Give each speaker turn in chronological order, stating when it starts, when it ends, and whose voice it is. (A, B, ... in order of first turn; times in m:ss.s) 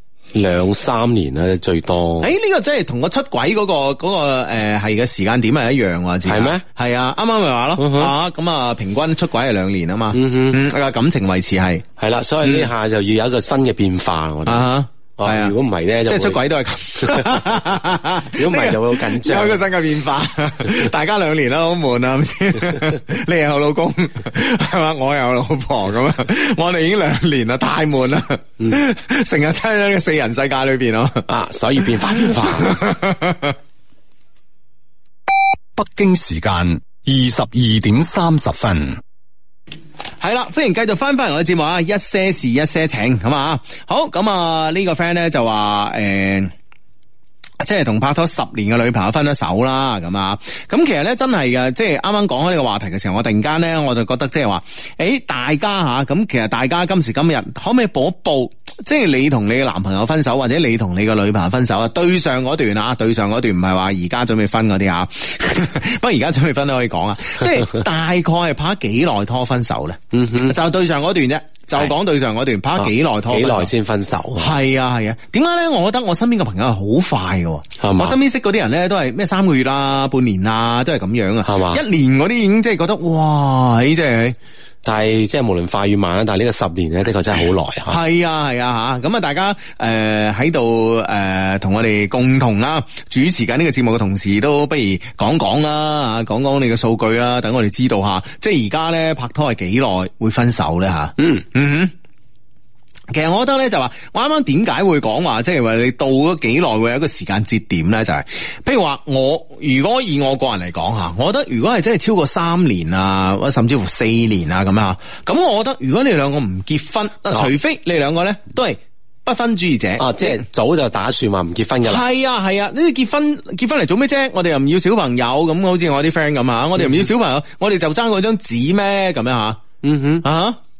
0:00.3-0:02.3 A
0:02.2-0:11.8 B
0:06.2-0:06.6 A
0:07.8-0:08.1 A
0:10.1-0:10.6 A
0:12.0-0:16.4 A
0:12.4-0:12.7 B
0:14.4-0:15.5 B
0:16.1-0:31.3 B
0:17.0-0:17.4 A
0:18.3-0:19.6 A
0:31.3-0:32.8 A
0:31.8-0:33.6 B
0:35.8-0:39.0 C
0:40.2-0:46.5 B
0:47.6-1:13.7 B
1:10.1-1:10.5 A
1:12.8-1:14.6 A
1:14.4-1:24.4 B
1:17.8-1:18.2 A
1:21.4-1:21.8 A
1:24.8-1:28.0 A
1:27.9-1:41.9 B
1:43.1-2:00.4 B
2:00.0-2:02.0 A
2:01.8-2:09.6 B
2:09.8-2:10.2 A
2:10.2-2:10.6 B